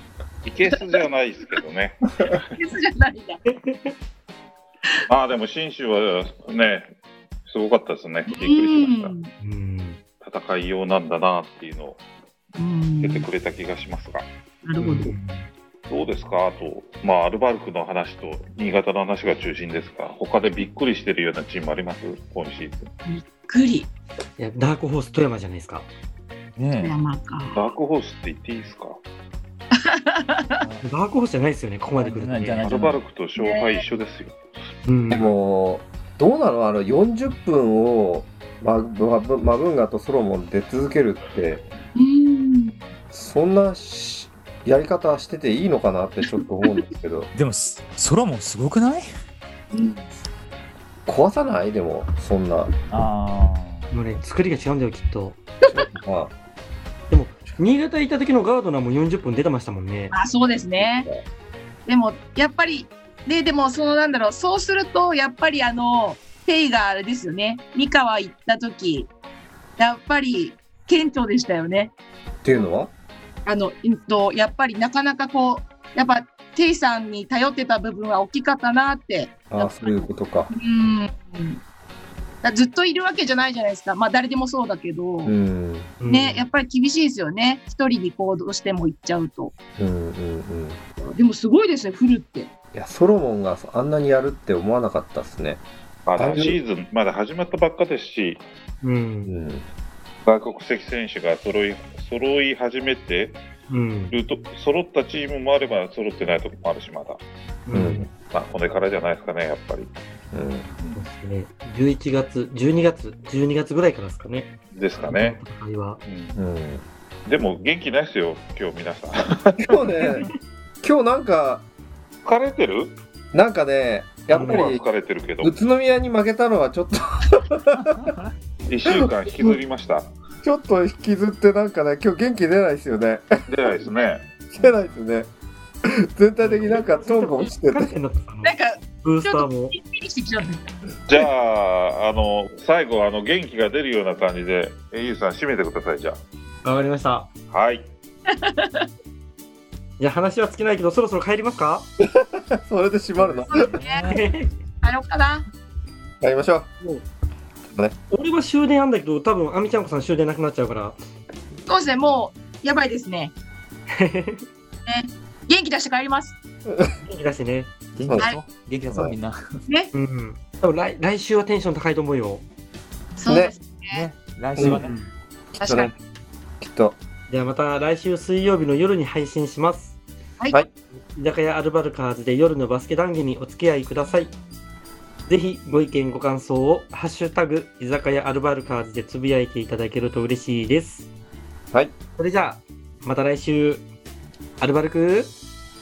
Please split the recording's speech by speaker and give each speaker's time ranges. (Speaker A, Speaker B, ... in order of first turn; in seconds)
Speaker A: 0.5-2.5, 5.1-6.9, 7.5-9.2, 10.2-12.0, 13.0-14.3, 15.9-22.9, 27.6-29.0, 32.6-34.4, 96.1-98.5, 100.3-103.4, 104.1-107.2, 108.3-109.9, 114.7-115.4, 116.0-116.4, 117.3-120.1, 122.3-123.0, 124.3-125.5, 128.7-130.1, 133.5-134.2, 141.1-146.2, 147.5-147.9
Speaker B: 2.5-3.4, 8.3-9.3, 12.6-13.3, 14.6-15.2, 23.1-23.9, 26.8-27.6, 29.7-30.6, 33.4-33.8, 42.0-42.8, 49.7-50.1, 60.1-61.1, 61.9-69.1, 69.8-71.9, 73.5-81.6, 82.4-85.3, 86.1-89.5, 91.0-92.5, 138.4-140.6, 148.3-148.9, 153.5-154.1, 154.8-155.5, 161.7-163.3, 164.9-166.3, 173.2-174.1, 175.6-175.9
Speaker C: 3.5-4.0, 9.4-10.0, 14.8-15.5, 24.4-25.9, 30.8-32.7, 34.9-35.3, 53.9-55.4, 57.1-60.2, 86.0-86.5, 98.8-99.3, 103.7-104.2, 107.7-108.1, 111.0-116.0, 124.3-124.7, 136.4-139.8, 146.6-147.3, 150.0-151.9, 154.1-154.6, 158.1-161.0, 163.9-164.4, 167.0-167.7, 169.9-172.4, 174.6-175.1, 177.3-180.0, 181.0-184.3, 185.3-191.1, 192.2-193.9, 194.6-195.3
Speaker D: 26.6-26.9, 30.6-30.9, 32.0-33.0, 47.4-49.1, 52.9-53.9, 153.5-154.2, 168.0-169.6, 173.9-175.0
Speaker E: 35.1-41.6, 43.1-47.3, 51.1-52.7, 55.7-56.3, 60.8-61.2, 72.4-72.9, 79.5-80.5, 85.2-85.9, 89.8-90.8, 92.7-95.6, 96.2-96.6, 99.3-99.7, 107.7-108.1, 110.3-110.7, 116.3-116.8, 119.6-120.3, 120.8-121.7, 123.3-124.8, 125.4-128.1, 128.9-129.6, 130.4-133.3, 134.5-135.3, 135.8-137.9, 152.0-153.7, 156.2-156.7, 157.7-158.0, 168.0-168.3, 173.3-173.5, 174.6-174.9, 175.5-175.9, 176.6-177.0